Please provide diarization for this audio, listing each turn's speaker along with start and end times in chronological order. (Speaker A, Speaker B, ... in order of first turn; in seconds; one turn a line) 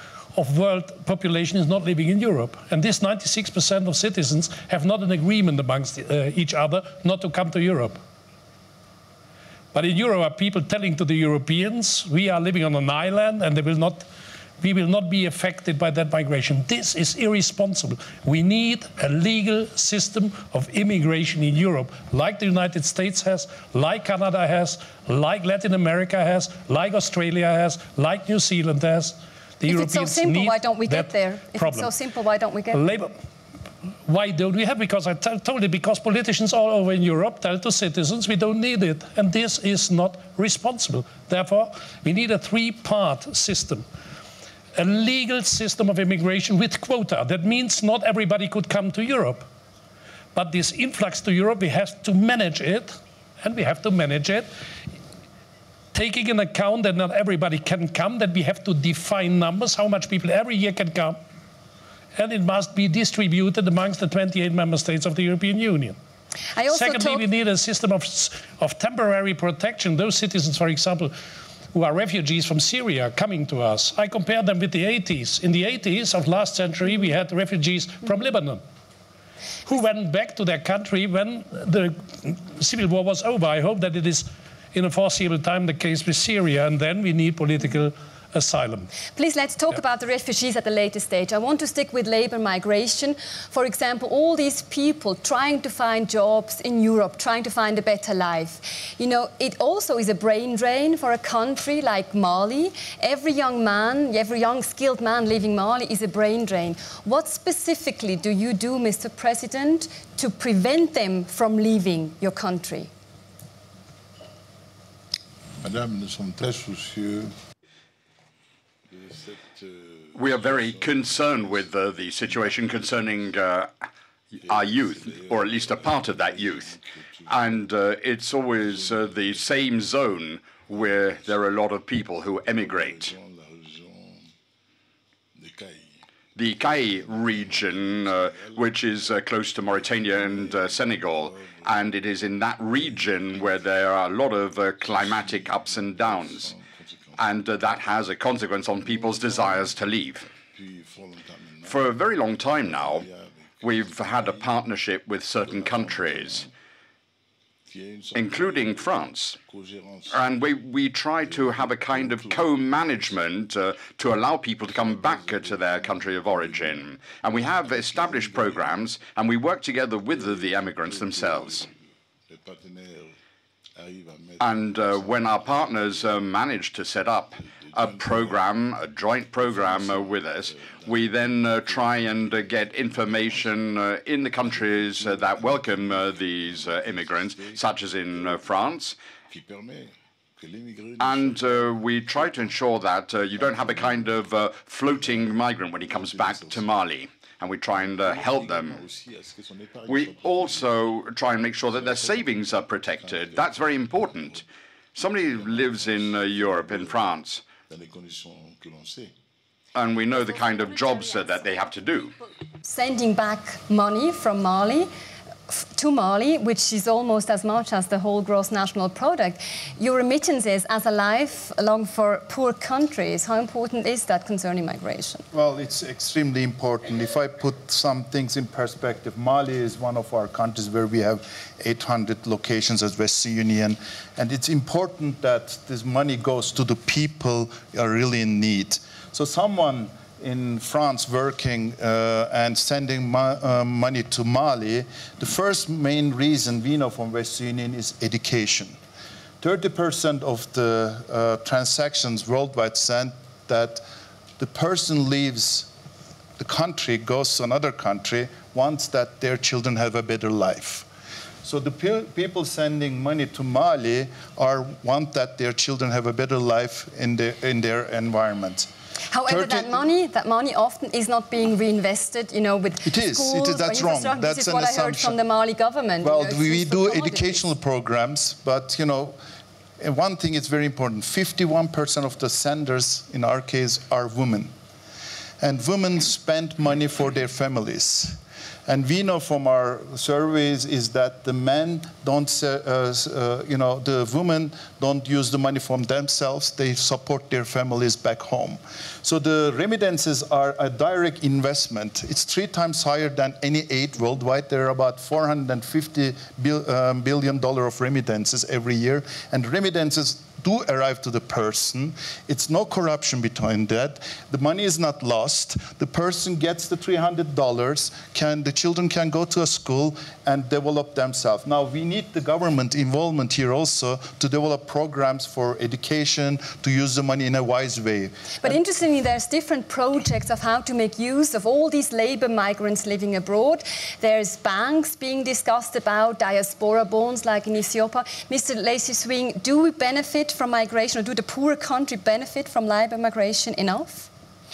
Speaker A: 0.3-8.0
Speaker A: 9.7-14.1
Speaker A: 14.6-31.9
Speaker B: 29.7-32.9
Speaker A: 32.7-33.1
Speaker A: 34.0-43.9
Speaker A: 44.8-49.5
Speaker A: 50.3-54.5
Speaker A: 55.9-61.2
Speaker A: 62.1-66.0
Speaker B: 66.5-67.2
Speaker A: 66.7-71.2
Speaker A: 71.7-78.6
Speaker A: 79.6-88.9
Speaker B: 89.2-112.9
Speaker C: 115.6-117.3
Speaker C: 118.9-123.3
Speaker D: 120.1-123.7
Speaker C: 124.3-127.7
Speaker D: 124.4-126.7
Speaker D: 127.3-133.1
Speaker C: 128.5-130.0
Speaker C: 130.6-131.5
Speaker C: 132.4-134.3
Speaker C: 135.3-139.1
Speaker D: 136.3-146.5
Speaker C: 139.7-142.0
Speaker C: 142.5-143.7
Speaker C: 144.8-147.8
Speaker D: 147.2-150.3
Speaker C: 148.8-149.8
Speaker C: 150.5-154.6
Speaker D: 151.7-153.1
Speaker D: 153.6-156.5
Speaker C: 155.3-156.5
Speaker C: 157.7-160.4
Speaker D: 158.1-159.4
Speaker D: 160.1-171.7
Speaker C: 161.2-163.2
Speaker C: 164.6-169.0
Speaker C: 170.0-171.7
Speaker C: 172.3-173.2
Speaker C: 173.8-176.3
Speaker D: 174.4-188.9
Speaker C: 177.3-178.5
Speaker C: 179.2-188.7
Speaker C: 189.3-196.7
Speaker D: 191.0-198.8
Speaker C: 197.7-204.4
Speaker D: 199.9-204.4
Speaker D: 204.9-207.4
Speaker C: 205.0-207.1
Speaker C: 207.7-209.1
Speaker D: 209.7-212.2
Speaker B: 212.6-214.9
Speaker B: 215.5-225.2
Speaker E: 225.3-248.7
Speaker E: 249.4-253.8
Speaker E: 254.4-255.7
Speaker E: 256.4-260.9
Speaker E: 261.4-268.7
Speaker B: 269.1-277.4
Speaker E: 269.3-269.8
Speaker E: 272.8-275.1
Speaker E: 276.0-279.1
Speaker E: 279.8-284.5
Speaker E: 285.4-328.5
Speaker B: 328.4-344.1